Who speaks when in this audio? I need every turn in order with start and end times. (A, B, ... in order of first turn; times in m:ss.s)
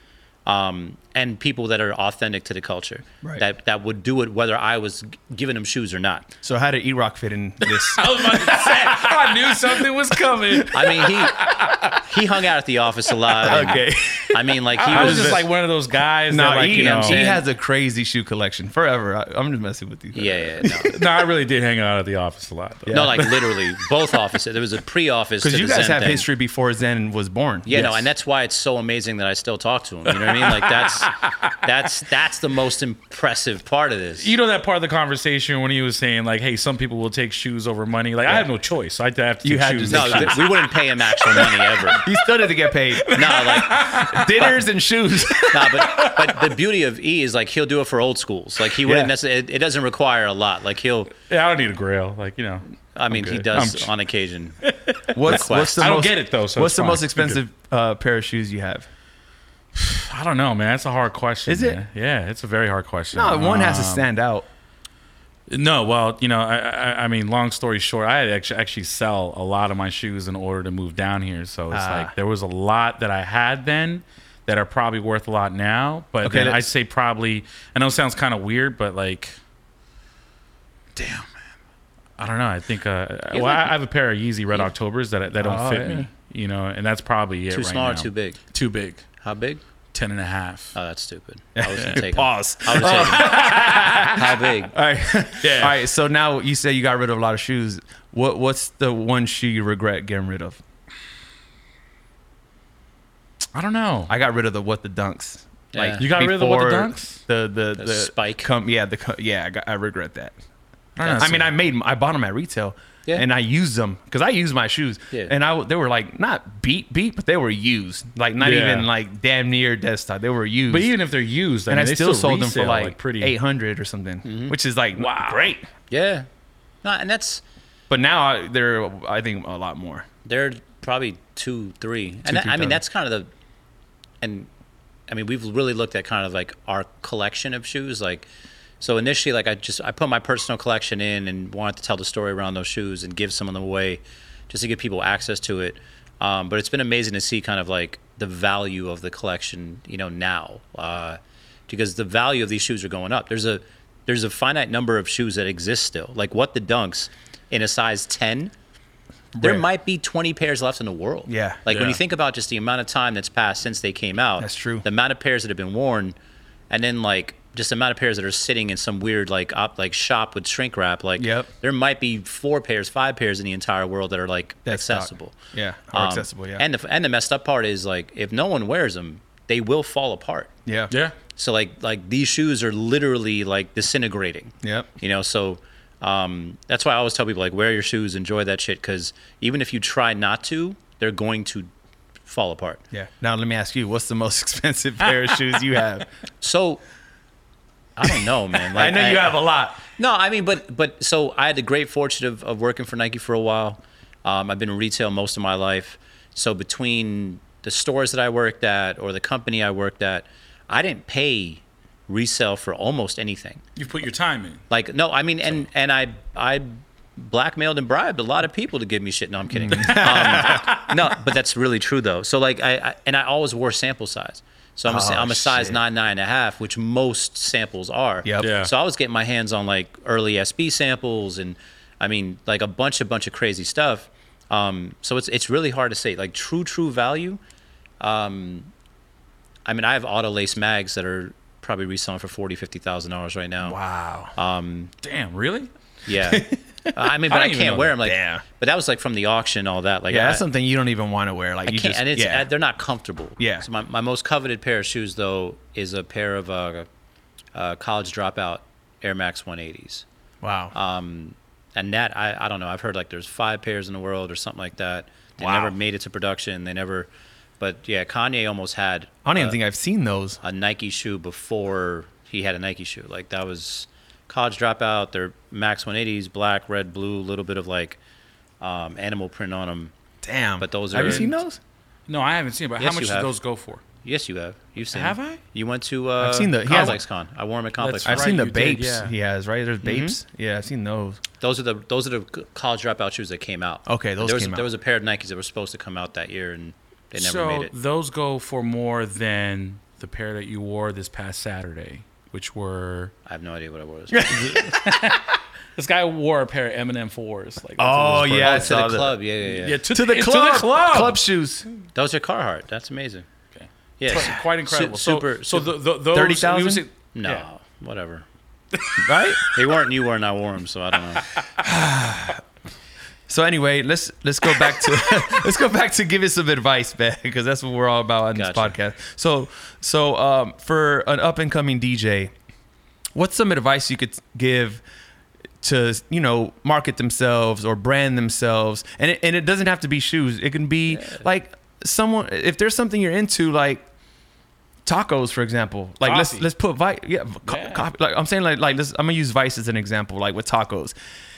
0:00.4-0:06.3 A
0:06.4-0:11.7 B
0:08.0-0:11.8 C
0:10.7-0:11.4 A
0:12.0-0:15.4 A
0:13.4-0:15.4 B
0:14.8-0:17.4 C
0:16.3-0:21.0 B
0:16.7-0:17.4 A
0:20.1-0:21.0 A
0:20.9-0:23.9 C
0:22.9-0:23.3 B
0:22.9-0:26.3 A
0:25.4-0:28.1 B
0:27.6-0:34.4 A
0:30.1-0:31.5 C
0:34.2-0:41.8 C
0:39.4-0:40.7 B
0:39.9-0:42.0 A
0:41.9-0:45.8 B
0:42.9-0:44.6 C
0:43.2-0:43.8 A
0:45.3-0:46.4 C
0:45.5-0:51.1 A
0:48.8-0:49.1 B
0:51.2-0:53.9 C
0:52.9-0:54.6 A
0:54.6-0:57.4 C
0:55.1-0:58.9 B
0:55.2-0:55.9 A
0:59.8-1:04.1 C
1:01.5-1:01.8 B
1:03.1-1:04.5 B
1:05.5-1:19.4 C
1:11.7-1:12.1 B
1:16.2-1:16.7 B
1:21.0-1:21.3 C
1:22.2-1:29.0 C
1:23.3-1:23.7 A
1:25.4-1:26.1 B
1:27.5-1:28.4 A
1:29.2-1:29.6 A
1:29.9-1:30.8 C
1:30.8-1:33.4 A
1:31.6-1:40.6 B
1:32.8-1:34.1 C
1:34.1-1:34.8 A
1:35.4-1:35.8 C
1:43.6-1:44.1 C
1:44.1-1:50.4 B
1:45.7-1:46.1 A
1:46.0-1:47.2 C
1:47.8-1:48.5 A
1:51.0-1:51.5 C
1:51.2-2:01.0 B
1:58.4-1:58.9 C
2:00.7-2:03.4 C
2:01.7-2:05.7 B
2:04.2-2:04.6 A
2:05.0-2:05.5 C
2:05.9-2:06.3 A
2:06.8-2:07.4 A
2:07.9-2:10.0 B
2:10.2-2:13.3 A
2:12.2-2:12.8 B
2:14.2-2:14.5 A
2:15.1-2:18.3 A
2:18.8-2:38.5 A
2:39.4-2:39.7 B
2:39.4-2:46.2 A
2:41.3-2:41.7 B
2:41.7-2:42.0 C
2:44.4-2:44.8 B
2:46.7-2:55.4 A
2:51.2-2:51.5 B
2:54.7-2:56.6 B
2:55.9-3:00.5 A
3:00.7-3:00.9 B
3:00.9-3:01.2 C
3:01.4-3:11.7 A
3:04.6-3:04.9 B
3:12.2-3:12.8 A
3:12.9-3:16.1 B
3:16.4-3:16.8 A
3:18.0-3:33.6 A
3:18.7-3:19.8 B
3:33.8-3:34.6 C
3:34.7-3:57.4 A
3:39.6-3:40.8 B
3:39.7-3:40.8 C
3:44.9-3:45.8 B
3:48.2-3:48.5 B
3:48.4-3:48.7 C
3:58.0-3:58.7 A
3:59.6-4:03.8 A
4:03.6-4:04.4 B
4:04.4-4:04.9 A
4:05.0-4:05.7 C
4:06.1-4:10.4 A
4:06.1-4:07.0 B
4:07.3-4:08.0 C
4:08.0-4:08.4 B
4:10.1-4:12.5 B
4:11.7-4:16.9 A
4:13.4-4:13.7 B
4:17.6-4:20.0 A
4:20.4-4:20.8 B
4:20.7-4:29.6 A
4:25.4-4:25.8 B
4:29.2-4:30.4 B
4:30.4-4:38.0 A
4:38.6-4:39.9 A
4:40.2-4:41.6 B
4:40.6-4:41.4 A
4:42.1-4:43.8 C
4:42.8-4:43.3 A
4:44.0-4:48.3 A
4:44.8-4:45.4 C
4:46.2-4:47.0 B
4:47.8-4:49.2 C
4:48.0-4:51.2 B
4:49.8-4:50.2 A
4:51.4-4:57.7 A
4:53.9-4:54.7 B
4:57.2-5:03.1 C
5:03.3-5:04.3 A
5:04.1-5:04.8 B
5:04.3-5:08.8 C
5:07.8-5:09.2 B
5:08.3-5:09.8 A
5:09.5-5:11.2 C
5:09.9-5:11.7 B
5:11.9-5:13.3 A
5:13.6-5:17.4 C
5:14.0-5:15.7 A
5:16.1-5:16.8 B
5:17.2-5:18.3 A
5:18.7-5:19.5 C
5:19.0-5:19.4 B
5:19.5-5:21.2 A
5:21.6-5:22.4 B
5:23.3-5:32.3 B
5:28.3-5:28.8 A
5:33.2-5:34.8 B
5:35.6-5:43.8 B
5:44.9-5:51.0 B
5:46.0-5:46.5 C
5:47.5-5:47.9 C